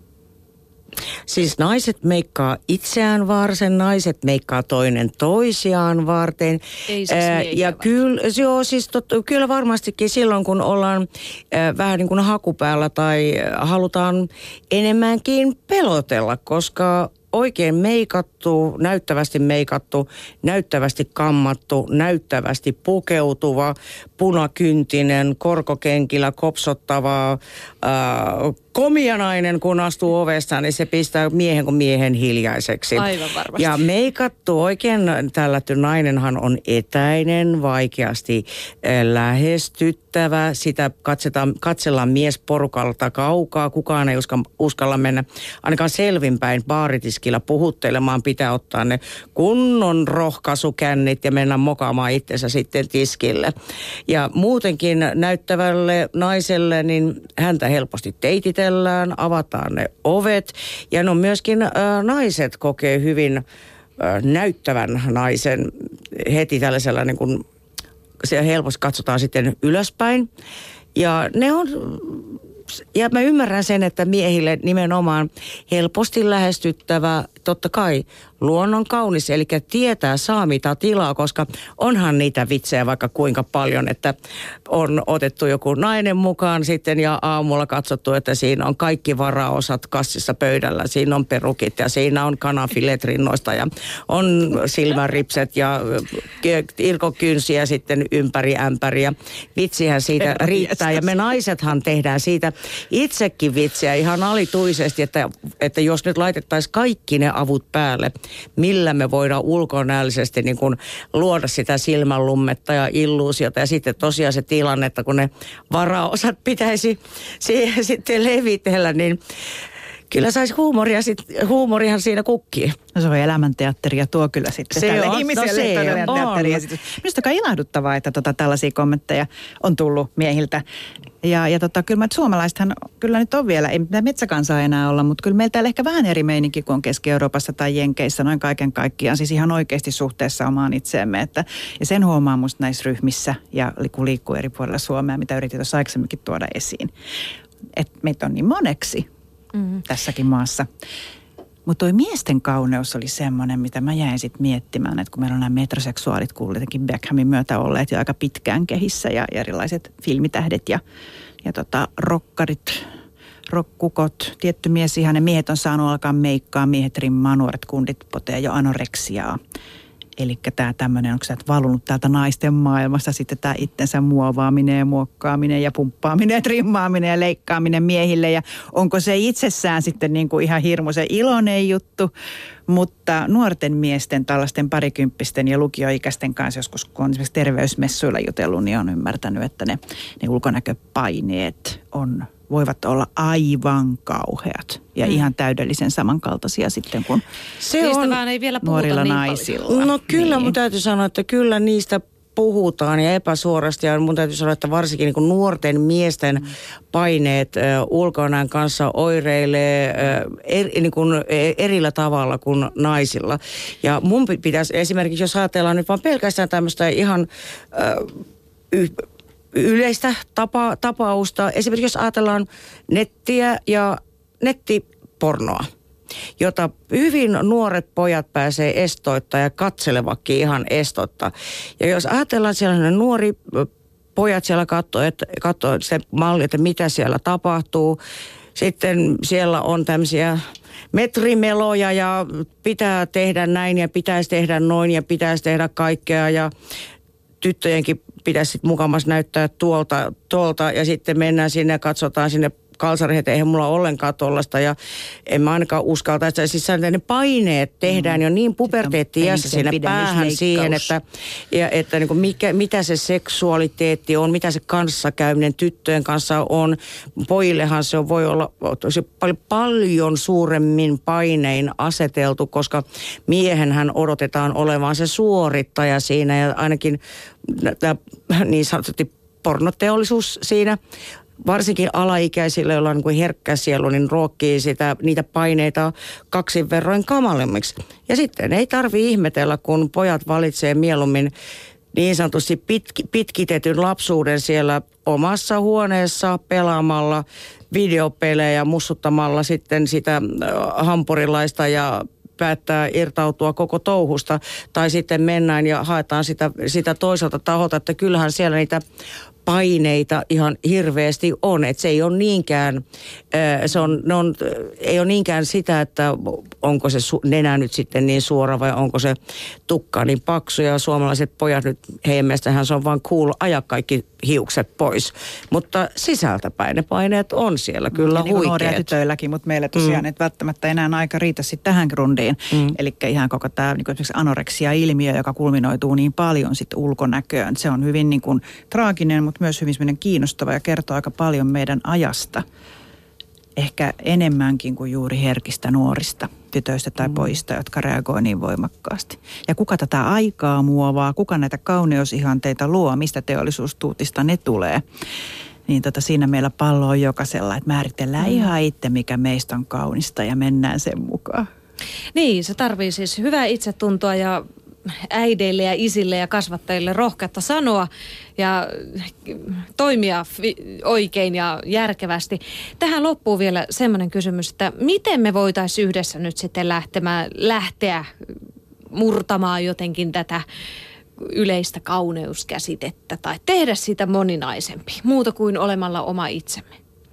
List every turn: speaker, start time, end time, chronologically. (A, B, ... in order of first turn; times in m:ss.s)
0:01.3-0:53.5 A
0:06.9-0:07.9 B
0:33.0-0:33.8 B
0:54.1-1:03.4 A
1:04.0-1:07.4 A
1:08.2-1:10.3 A
1:11.0-1:12.4 A
1:12.9-1:24.2 A
1:24.7-1:59.2 A
2:00.1-2:02.8 A
2:03.0-2:10.6 C
2:04.7-2:06.6 A
2:11.2-2:26.9 C
2:27.8-2:29.1 C
2:29.8-2:30.7 C
2:31.7-2:40.8 C
2:41.4-2:42.8 C
2:43.5-2:49.4 C
2:50.2-3:02.1 C
3:02.7-3:17.2 C
3:17.6-3:18.2 A
3:17.8-3:19.6 B
3:18.6-3:20.6 C
3:19.7-3:38.1 A
3:38.7-3:45.7 A
3:46.4-3:58.0 A
3:58.6-4:00.4 A
4:00.9-4:06.5 A
4:07.4-4:14.8 A
4:15.3-4:40.8 A
4:17.9-4:20.9 C
4:41.4-4:51.3 A
4:51.9-5:08.8 A
5:09.4-5:19.2 A
5:19.7-5:28.9 A
5:27.9-5:42.4 C
5:43.6-5:54.8 C
5:55.7-6:01.5 C
6:02.1-6:18.1 B
6:18.9-6:20.4 B
6:21.2-6:26.8 B